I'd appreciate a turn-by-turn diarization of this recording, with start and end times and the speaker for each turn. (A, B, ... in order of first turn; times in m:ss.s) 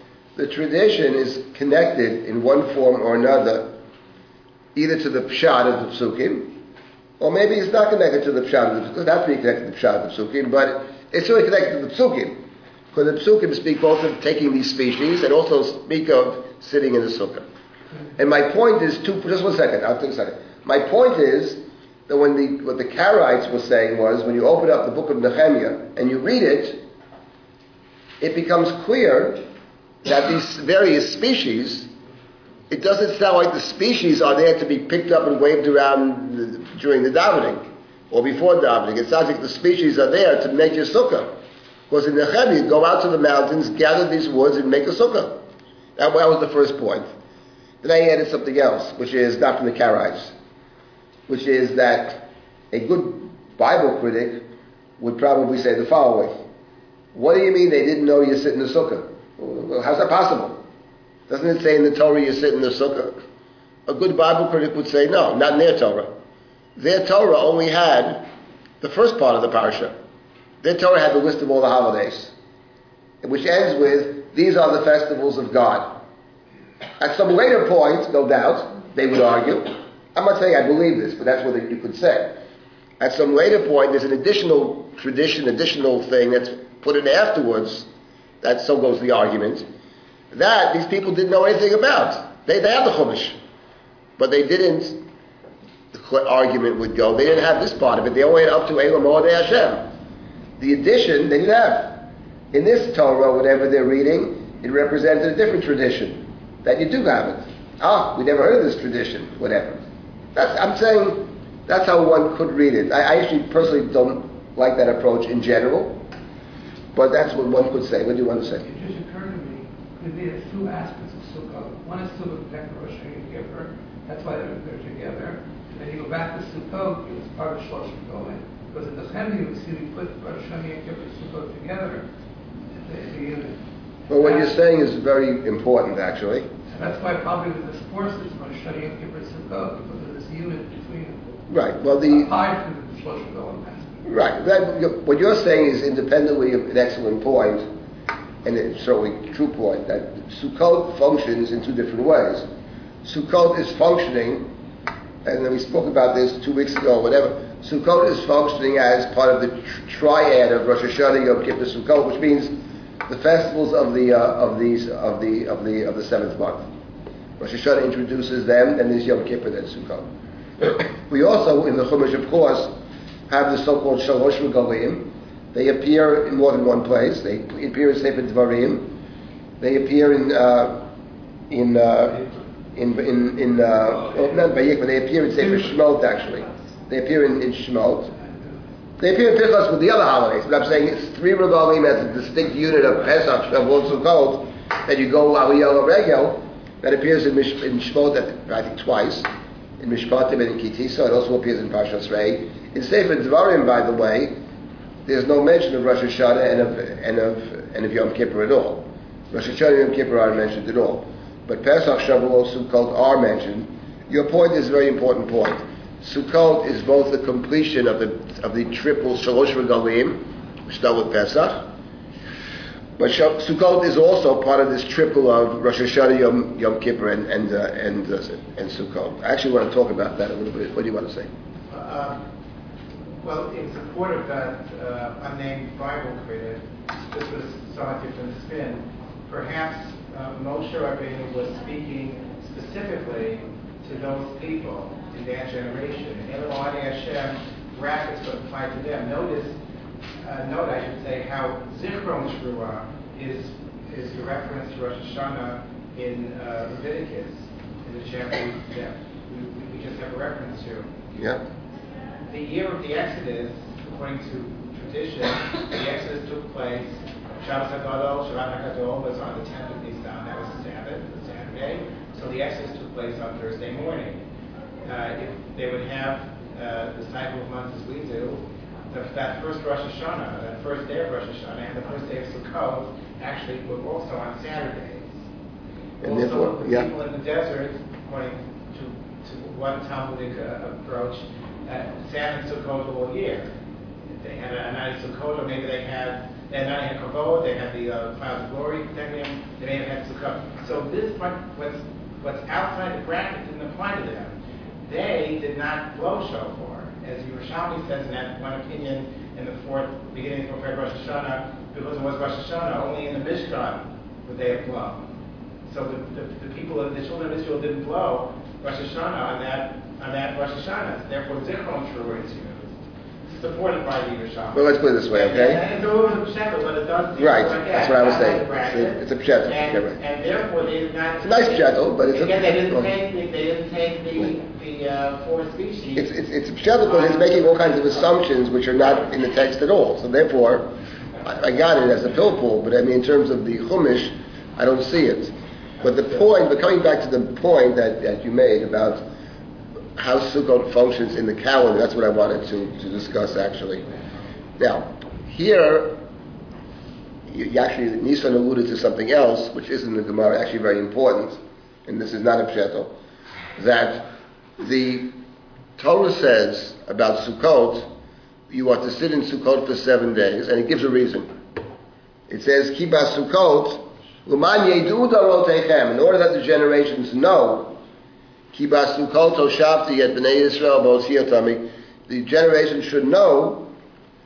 0:00.4-0:03.8 A
0:04.7-0:06.6 A
0:07.2-0:12.4 A
0:12.9-0:17.4 A
0:18.2-0:26.8 A
0:28.2-0:29.4 A
0:30.0-0:31.9 A
0:32.7-0:41.3 A
0:41.9-0:45.4 A
0:46.0-0:47.1 A
0:47.8-0:50.3 A
0:51.3-0:54.5 A
0:55.0-0:56.3 A
0:57.1-1:00.6 A
1:01.3-1:03.2 A
1:03.9-1:06.1 A
1:06.8-1:08.2 A
1:08.8-1:09.9 A
1:10.6-1:12.3 A
1:13.2-1:16.0 A
1:17.0-1:22.4 A
1:23.0-1:27.9 A
1:28.4-1:29.6 A
1:30.3-1:33.4 A
1:34.2-1:35.0 A
1:35.9-1:39.9 A
1:40.6-1:49.8 A
1:50.3-1:56.0 A
1:56.9-1:58.6 A
1:58.6-2:12.0 B
2:12.7-2:13.6 B
2:14.1-2:16.5 A
2:14.2-2:14.5 B
2:16.7-2:21.3 B
2:21.5-2:22.3 A
2:22.0-2:24.0 B
2:24.0-2:27.7 A
2:28.4-2:32.4 A
2:33.0-2:34.5 A
2:35.2-2:46.7 A
2:47.4-2:50.1 A
2:50.6-2:52.7 A
2:53.3-2:59.0 A
2:59.6-3:00.9 A
3:01.5-3:08.1 A
3:08.2-3:08.6 B
3:09.0-3:19.3 A
3:19.8-3:24.4 A
3:25.0-3:41.7 A
3:43.0-3:51.3 A
3:51.7-3:52.2 C
3:53.2-4:09.6 C
4:10.2-4:20.9 C
4:21.1-4:21.4 A
4:22.3-4:34.2 C
4:34.8-4:45.2 C
4:46.0-4:53.5 C
4:46.0-4:46.9 A
4:54.2-5:04.3 C
5:04.8-5:15.0 C
5:15.6-5:22.7 C
5:23.3-5:36.1 C
5:24.5-5:25.6 A
5:27.2-5:30.0 A
5:31.2-5:32.9 A
5:36.0-5:40.7 A
5:36.8-5:38.1 C
5:41.2-5:49.0 A
5:50.0-5:53.8 A
5:54.6-5:56.0 A
5:57.3-6:02.9 A
6:03.6-6:05.1 A
6:05.8-6:07.9 A
6:08.5-6:11.3 A
6:12.3-6:17.8 A
6:18.5-6:23.7 A